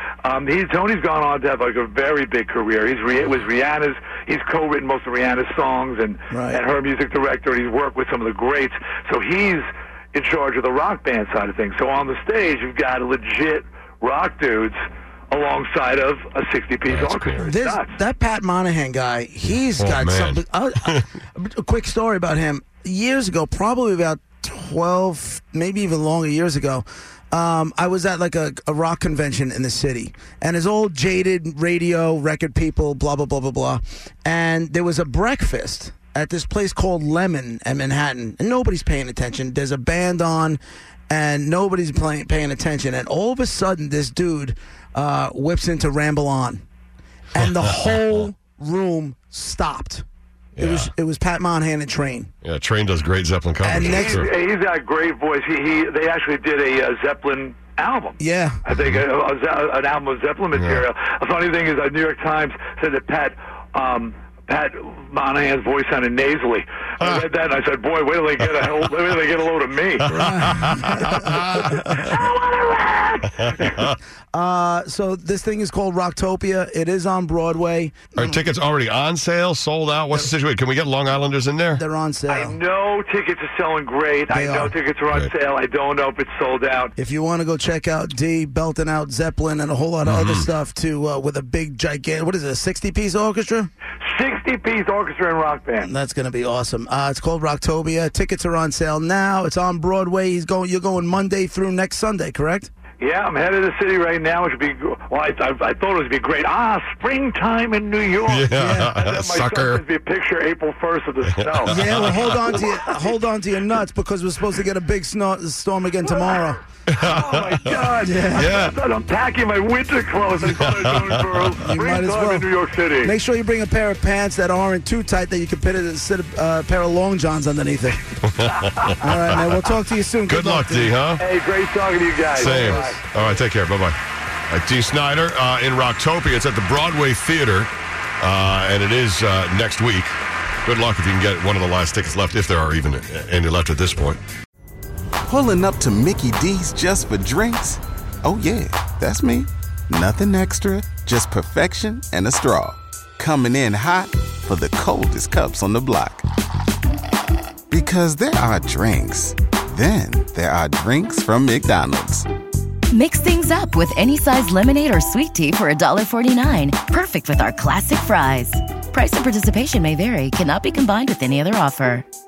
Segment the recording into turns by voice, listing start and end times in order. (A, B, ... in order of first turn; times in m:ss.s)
0:00.2-0:14.8 A
0:06.3-0:06.6 B
0:15.3-0:18.0 A
0:16.9-0:17.4 C
0:17.4-0:46.6 B
0:19.8-0:21.0 C
0:47.3-0:50.0 B
0:50.6-0:50.9 C
0:50.6-0:52.3 B
0:52.4-0:54.3 C
0:53.6-0:54.3 B
0:53.8-1:10.2 A
0:58.2-0:58.6 B
0:58.7-0:59.0 C
1:00.5-1:00.8 C
1:10.1-1:12.0 C
1:10.1-1:12.2 B
1:11.9-1:13.7 A
1:13.5-1:13.9 C
1:14.3-1:18.4 B
1:18.2-1:21.8 C
1:21.7-1:22.6 B
1:22.3-1:26.9 A
1:24.3-1:24.7 B
1:27.0-1:33.7 B
1:30.0-1:30.5 C
1:34.0-1:35.9 A
1:35.8-1:42.7 B
1:43.0-1:53.0 A
1:48.2-1:49.8 C
1:48.5-1:48.9 B
1:51.4-1:52.5 C
1:51.6-1:56.6 B
1:56.1-1:56.4 A
1:56.9-1:58.7 C
1:57.0-2:03.1 A
1:58.0-1:58.6 B
2:00.4-2:01.5 C
2:01.6-2:02.5 B
2:03.0-2:08.1 B
2:08.2-2:09.5 C
2:08.7-2:09.1 A
2:09.0-2:10.9 B
2:10.3-2:11.2 C
2:11.2-2:13.1 A
2:12.3-2:13.0 B
2:12.4-2:14.0 C
2:14.5-2:24.2 C
2:25.2-2:36.2 D
2:37.7-2:42.2 D
2:42.9-2:52.0 E